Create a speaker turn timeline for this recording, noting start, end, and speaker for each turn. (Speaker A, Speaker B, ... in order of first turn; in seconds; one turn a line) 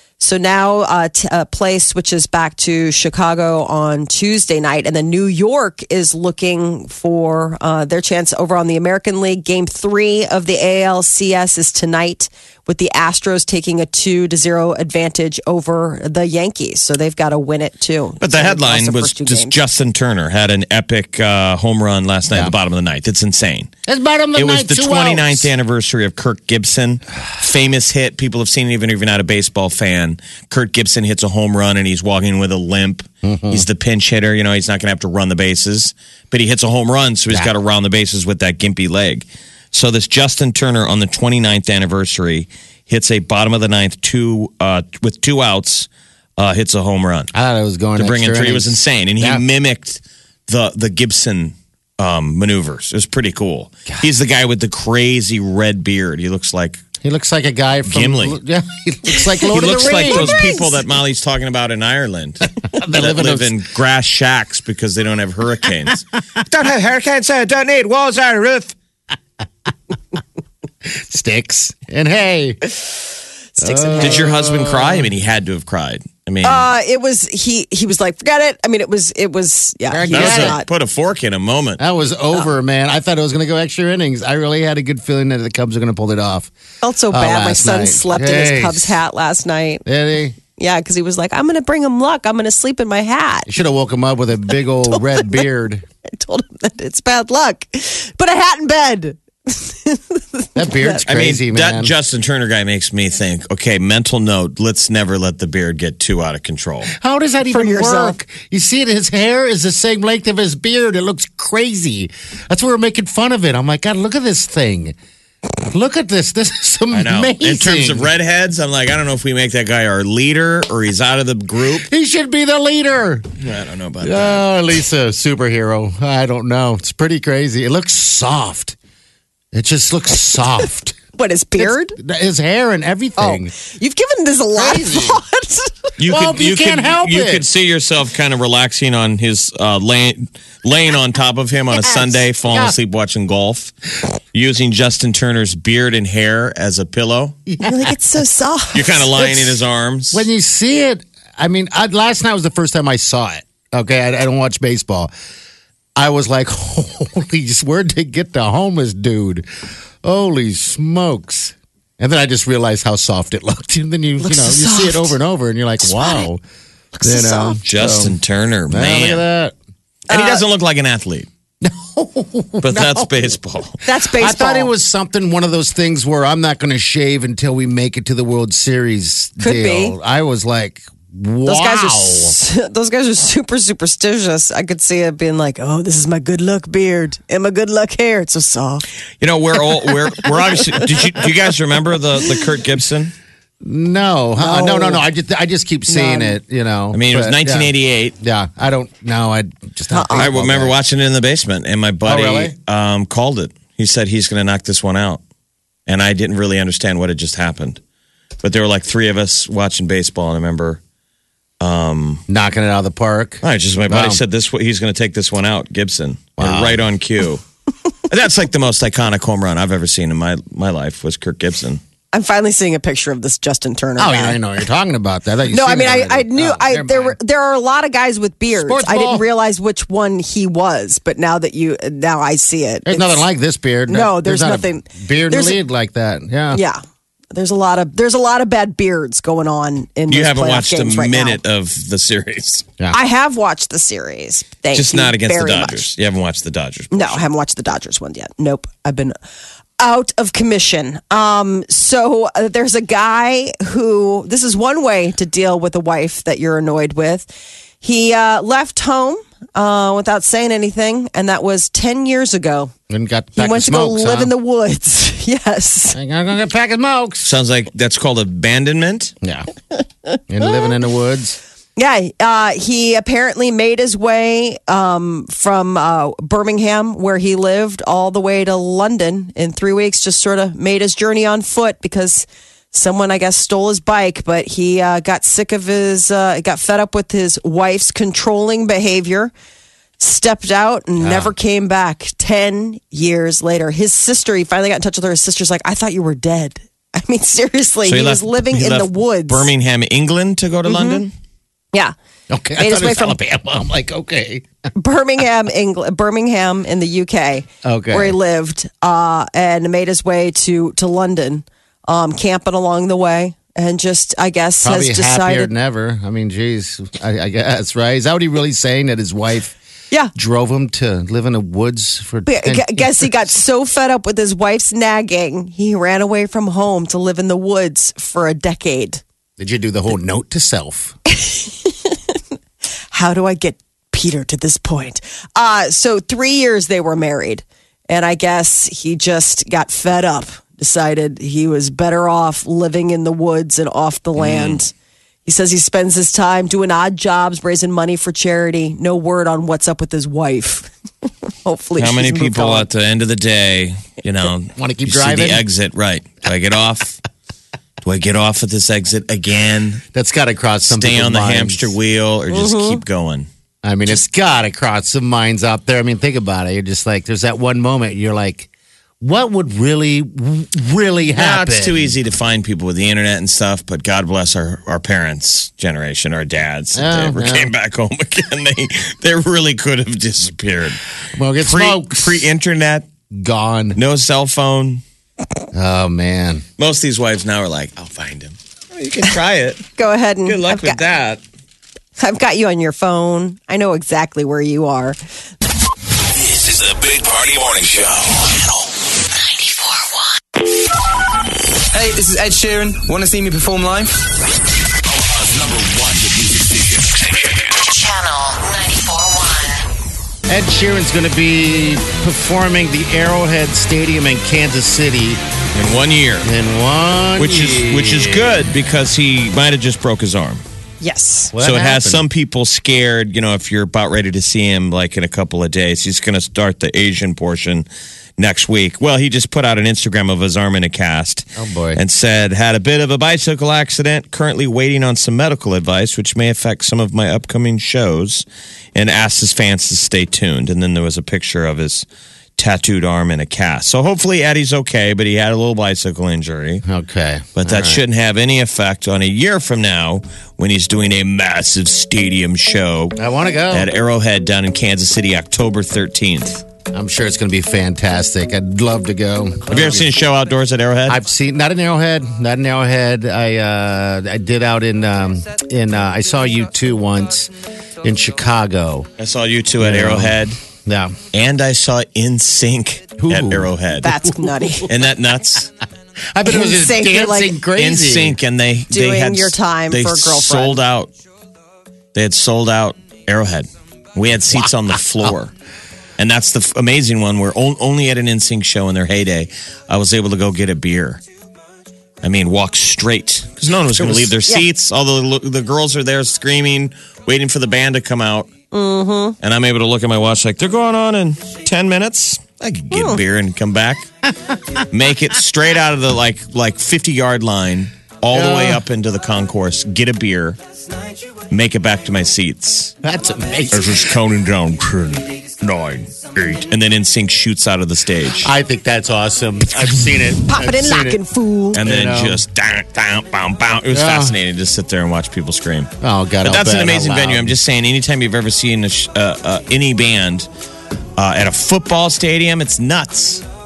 Speaker A: 0.2-19.6
Speaker B: 18.2-23.7
Speaker C: 23.9-25.5
Speaker B: 24.4-47.3
Speaker C: 33.2-33.7
Speaker C: 47.3-49.4
Speaker B: 48.0-56.8
Speaker C: 57.0-60.5
Speaker B: 57.9-58.4
Speaker A: 59.4-60.8
Speaker B: 59.5-68.7
Speaker C: 62.7-63.6
Speaker C: 70.8-72.6
Speaker A: 73.6-74.3
Speaker C: 73.6-75.1
Speaker B: 74.0-76.7
Speaker A: 76.4-80.7
Speaker C: 79.9-80.6
Speaker B: 80.1-81.8
Speaker C: 81.8-86.5
Speaker A: 86.8-89.8
Speaker C: 87.1-89.0
Speaker C: 89.8-90.4
Speaker A: 90.6-93.5
Speaker C: 93.5-95.8
Speaker A: 94.9-95.4
Speaker A: 96.1-101.0
Speaker C: 100.6-101.9
Speaker B: 101.1-106.9
Speaker C: 107.0-115.0
Speaker A: 107.5-108.2
Speaker C: 115.6-118.1
Speaker B: 116.9-121.9
Speaker C: 121.7-123.4
Speaker B: 123.4-124.5
Speaker C: 124.0-128.8
Speaker C: 129.5-131.0
Speaker A: 131.2-132.0
Speaker C: 131.6-133.5
Speaker A: 133.2-135.9
Speaker C: 134.5-135.2
Speaker B: 136.0-143.7
Speaker C: 136.1-137.5
Speaker C: 142.0-142.8
Speaker B: 144.3-147.4
Speaker C: 147.5-147.9
Speaker A: 147.6-149.2
Speaker B: 148.7-150.3
Speaker C: 150.1-155.1
Speaker C: 156.0-166.4
Speaker A: 164.2-165.2
Speaker A: 165.8-166.3
Speaker A: 166.9-167.6
Speaker C: 167.0-168.2
Speaker B: 167.7-169.2
Speaker C: 168.7-169.5
Speaker A: 170.1-170.4
Speaker B: 170.1-171.3
Speaker C: 171.6-173.4
Speaker B: 172.6-173.8
Speaker A: 173.8-174.7
Speaker C: 174.1-182.3
Speaker A: 179.4-180.0
Speaker A: 181.4-188.8
Speaker B: 189.2-193.1
Speaker C: 193.6-200.8
Speaker A: 194.4-195.0
Speaker A: 195.9-196.4
Speaker B: 196.9-198.2
Speaker A: 199.9-200.3
Speaker B: 200.2-205.2
Speaker C: 202.0-202.6
Speaker B: 205.9-207.8
Speaker B: 208.4-210.8
Speaker B: 211.6-212.2
Speaker C: 212.3-214.2
Speaker B: 213.4-217.4
Speaker C: 216.4-216.8
Speaker B: 218.1-221.8
Speaker A: 222.1-224.4
Speaker C: 224.0-227.2
Speaker A: 225.5-233.3
Speaker C: 228.6-229.2
Speaker C: 232.9-236.6
Speaker A: 233.9-235.6
Speaker A: 236.5-236.8
Speaker A: 237.3-241.4
Speaker B: 240.1-242.7
Speaker A: 242.9-245.9
Speaker B: 244.7-247.2
Speaker A: 246.9-249.2
Speaker A: 249.8-262.7
Speaker C: 262.9-264.3
Speaker A: 263.4-266.0
Speaker C: 265.9-267.3
Speaker B: 267.2-269.1
Speaker C: 269.2-269.5
Speaker C: 270.3-271.4
Speaker A: 271.8-289.3
Speaker A: 290.0-299.5
Speaker C: 291.0-291.3
Speaker B: 297.9-301.1
Speaker A: 300.7-301.0
Speaker C: 302.3-304.5
Speaker A: 302.6-303.2
Speaker A: 304.8-315.5
Speaker C: 307.6-308.2
Speaker C: 314.6-319.6
Speaker C: 320.1-323.1
Speaker A: 322.3-329.0
Speaker C: 329.4-330.9
Speaker A: 331.1-332.2
Speaker A: 332.9-344.7
Speaker B: 344.2-344.6
Speaker A: 345.3-350.7
Speaker A: 351.4-352.7
Speaker B: 351.8-357.0
Speaker C: 354.6-355.4
Speaker B: 357.8-359.8
Speaker C: 359.9-361.7
Speaker B: 360.7-363.3
Speaker A: 362.3-362.8
Speaker C: 363.6-368.5
Speaker C: 369.0-371.9
Speaker B: 371.1-380.8
Speaker C: 376.8-377.5
Speaker C: 381.1-382.3
Speaker B: 381.4-382.9
Speaker C: 383.1-383.8
Speaker B: 383.8-384.8
Speaker C: 385.5-386.4
Speaker B: 386.6-389.7
Speaker A: 389.8-390.8
Speaker B: 390.3-391.2
Speaker A: 392.0-395.0
Speaker D: 396.1-398.7
Speaker E: 399.2-400.1
Speaker F: 401.7-404.1
Speaker D: 404.9-407.6
Speaker E: 407.6-409.6
Speaker C: 410.3-415.2
Speaker B: 415.5-416.3
Speaker C: 416.2-418.4
Speaker B: 417.2-420.4
Speaker A: 420.8-421.3
Speaker C: 421.3-422.1
Speaker B: 421.4-427.7
Speaker B: 428.2-441.9
Speaker C: 431.4-431.8
Speaker B: 442.4-446.6
Speaker C: 446.6-447.8
Speaker B: 447.4-453.0
Speaker C: 453.0-453.7
Speaker B: 453.5-456.4
Speaker C: 456.7-459.9
Speaker B: 459.5-461.0
Speaker C: 460.9-468.9
Speaker B: 469.0-470.4
Speaker C: 469.6-471.0
Speaker B: 471.1-473.9
Speaker C: 473.0-474.6
Speaker A: 473.8-474.7
Speaker B: 474.7-475.5
Speaker C: 476.1-478.2
Speaker A: 476.2-477.4
Speaker B: 477.6-480.9
Speaker A: 478.7-480.6
Speaker B: 481.9-485.3
Speaker C: 484.3-485.1
Speaker B: 486.0-491.0
Speaker B: 492.0-498.3
Speaker C: 493.8-494.1
Speaker A: 498.5-499.2
Speaker B: 499.2-503.9
Speaker A: 502.7-503.0
Speaker B: 504.7-510.4
Speaker C: 508.1-508.6
Speaker B: 511.3-512.8
Speaker C: 512.8-514.0
Speaker B: 513.5-518.3
Speaker C: 518.2-521.0
Speaker A: 520.3-521.6
Speaker B: 521.5-525.7
Speaker C: 521.5-522.2
Speaker C: 523.7-524.2
Speaker C: 525.8-527.4
Speaker B: 526.2-530.3
Speaker B: 531.0-533.2